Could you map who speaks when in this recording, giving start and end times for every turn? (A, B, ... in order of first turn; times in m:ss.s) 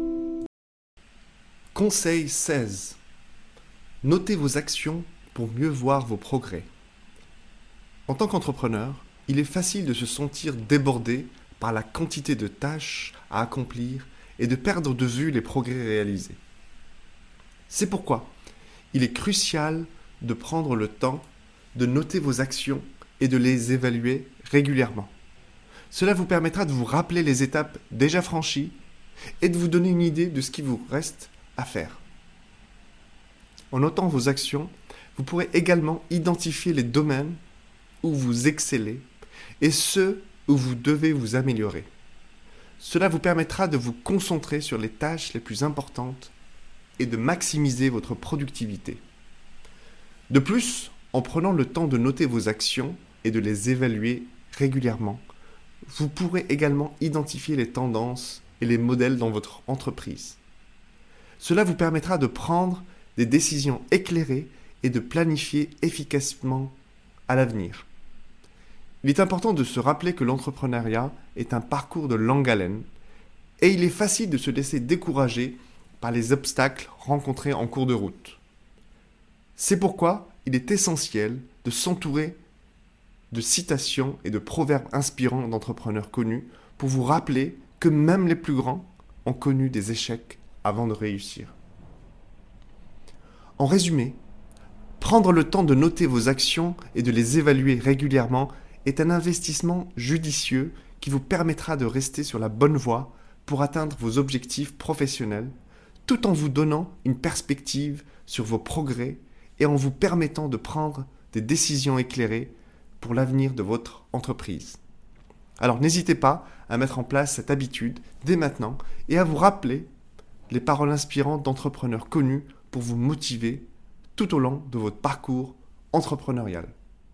0:01.7-0:03.0 A
0:04.0-0:06.7 A
0:08.1-0:16.4 A
0:17.7-0:18.3 A
0:18.9-0:25.1 A
0:25.9-0:28.8 A
0:29.4-0:32.0 A
0:33.7-0:37.4 A
0:38.0-0:39.1 A
0:39.6-0:41.9 A
0:42.8-0:46.3 A
0:47.0-0:49.0 A
0:50.3-0:55.2 A
0:55.9-1:00.4 A
1:01.4-1:06.8 A
1:07.3-1:07.9 A
1:09.0-1:12.8 A
1:13.6-1:18.4 A
1:19.6-1:22.4 A
1:23.3-1:31.6 A
1:33.6-1:34.2 A
1:35.0-1:45.5 A
1:46.1-1:54.8 A
1:55.6-1:59.9 A
2:00.5-2:06.7 A